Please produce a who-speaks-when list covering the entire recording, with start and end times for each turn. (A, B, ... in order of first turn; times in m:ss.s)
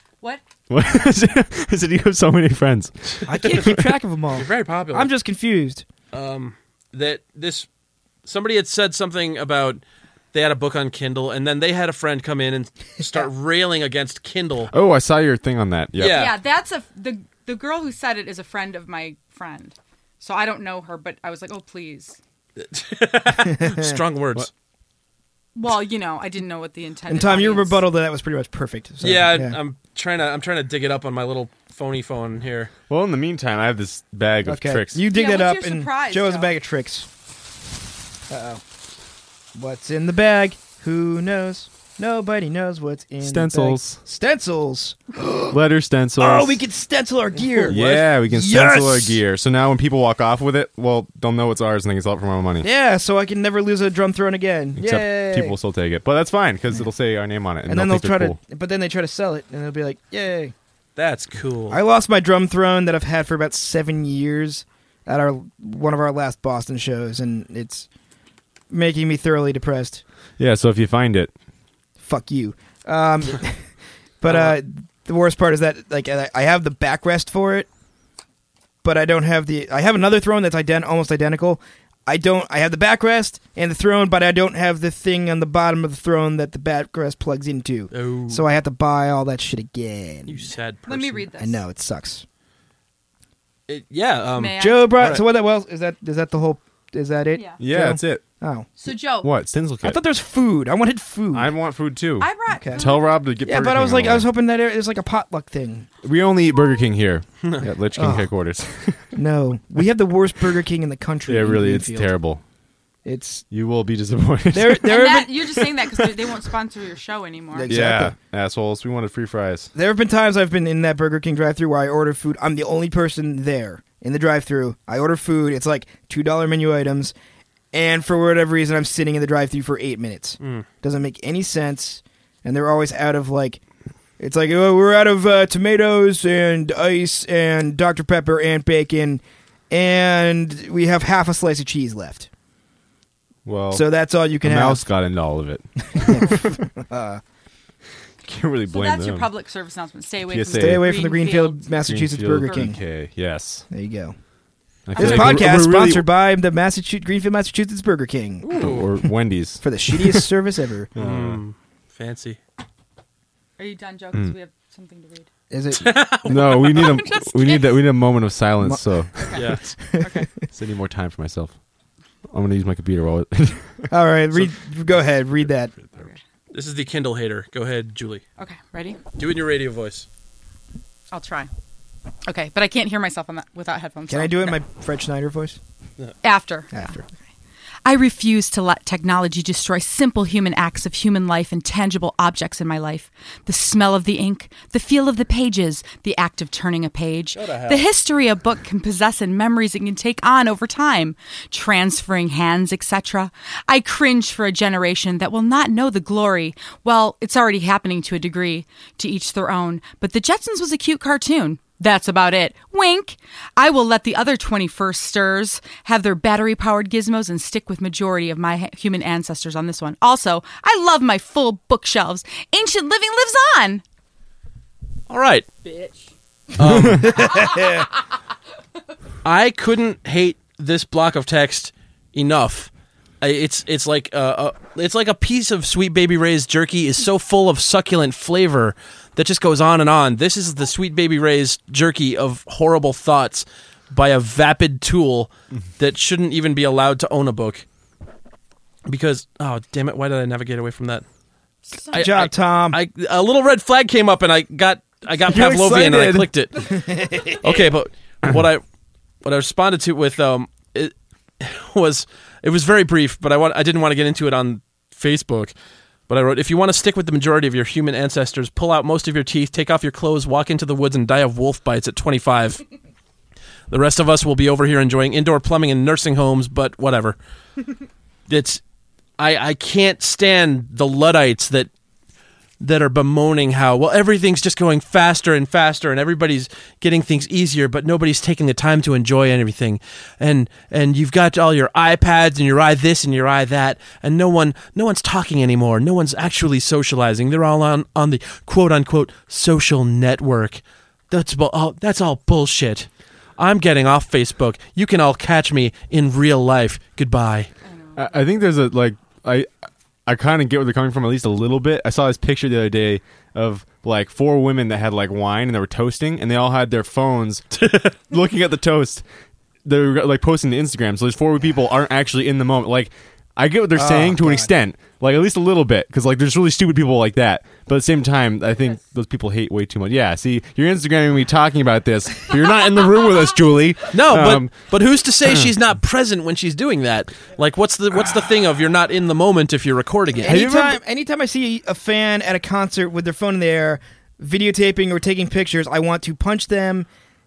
0:00.7-0:03.8 A
0:03.2-0:03.8 B
0:03.2-0:05.8 C
0:04.3-0:05.1 B
0:06.1-0:07.7 B
0:08.2-0:09.8 B
0:10.3-0:14.7 B
0:14.7-0:16.3 A
0:16.0-0:16.4 B
0:16.1-0:22.2 D
0:22.6-0:24.5 B
0:23.5-0:24.0 C
0:25.5-0:27.8 D
0:27.1-0:29.6 C
0:29.0-0:32.7 B
0:32.9-0:35.0 A
0:34.4-0:37.1 C
0:35.1-0:36.5 D
0:38.3-0:38.6 C
0:39.5-0:45.6 C
0:43.2-0:44.0 A
0:45.5-0:46.6 A
0:46.2-0:49.2 C
0:47.6-0:52.7 A
0:52.6-0:55.5 C
0:54.8-0:58.4 A
0:57.7-1:00.5 C
1:01.0-1:01.8 B
1:01.7-1:07.9 C
1:08.7-1:10.0 C
1:10.4-1:11.3 A
1:12.0-1:13.6 C
1:14.2-1:17.7 C
1:14.3-1:14.6 B
1:18.8-1:30.5 C
1:27.9-1:28.4 B
1:30.3-1:31.3 B
1:30.9-1:31.6 D
1:31.4-1:32.2 C
1:33.7-1:35.2 B
1:34.4-1:35.0 D
1:34.6-1:38.7 C
1:37.3-1:37.6 D
1:37.6-1:38.2 A
1:38.8-1:39.3 D
1:39.2-1:40.0 A
1:39.8-1:41.5 C
1:41.3-1:44.3 A
1:42.2-1:43.1 D
1:42.5-1:42.9 C
1:43.4-1:45.9 C
1:46.0-1:49.1 A
1:47.9-1:48.3 C
1:49.1-1:52.1 C
1:51.3-1:52.4 A
1:53.0-1:53.4 C
1:53.5-1:55.1 A
1:54.5-1:55.4 C
1:54.8-1:57.7 D
1:57.5-1:58.1 C
1:57.7-1:59.7 A
1:59.7-2:07.1 C
2:07.7-2:13.6 C
2:10.4-2:10.6 B
2:14.2-2:22.3 C
2:23.4-2:23.8 A
2:23.7-2:24.8 C
2:24.4-2:26.6 A
2:25.9-2:27.2 C
2:28.2-2:29.3 A
2:28.7-2:31.8 D
2:30.3-2:30.9 A
2:30.5-2:32.8 C
2:31.8-2:33.7 A
2:32.4-2:32.7 D
2:33.7-2:34.2 C
2:34.9-2:36.1 A
2:35.0-2:38.5 C
2:35.0-2:35.3 D
2:38.4-2:38.9 B
2:38.6-2:40.2 A
2:39.6-2:40.9 C
2:40.9-2:41.4 A
2:41.0-2:42.4 B
2:43.6-2:45.3 D
2:45.5-2:45.9 C
2:45.8-2:47.0 B
2:46.2-2:49.5 A
2:46.7-2:47.7 D
2:49.2-2:50.3 D
2:49.4-2:49.6 B
2:49.6-2:50.5 C
2:50.5-2:51.5 A
2:52.3-2:53.9 A
2:53.9-2:55.7 C
2:56.5-2:58.2 B
2:58.4-2:59.0 D
2:59.2-3:00.1 B
3:01.1-3:01.5 D
3:02.2-3:04.6 D
3:04.1-3:05.6 C
3:06.2-3:07.0 D
3:06.7-3:07.0 C
3:07.8-3:43.8 D
3:17.3-3:17.9 B
3:45.1-3:45.5 B
3:45.6-3:46.1 D
3:46.6-3:47.6 B
3:47.0-3:47.9 C
3:47.2-3:47.8 D
3:49.2-3:52.7 B
3:53.2-4:07.6 B
4:08.8-4:11.0 B
4:11.7-4:12.0 D
4:11.9-4:16.7 B
4:11.9-4:12.8 C
4:15.2-4:16.3 A
4:16.6-4:17.6 C
4:17.4-4:18.6 B
4:19.2-4:25.5 B
4:26.1-4:32.6 B
4:33.7-4:37.2 B
4:38.3-4:38.6 B
4:39.2-4:41.7 B
4:42.6-5:07.5 B
5:07.6-5:08.2 D
5:08.0-5:09.5 A
5:10.0-5:19.0 A
5:17.5-5:18.0 B
5:19.6-5:34.7 A
5:23.8-5:24.5 C
5:33.9-5:40.4 B
5:35.2-5:35.5 A
5:40.2-5:46.9 C
5:40.2-5:40.8 A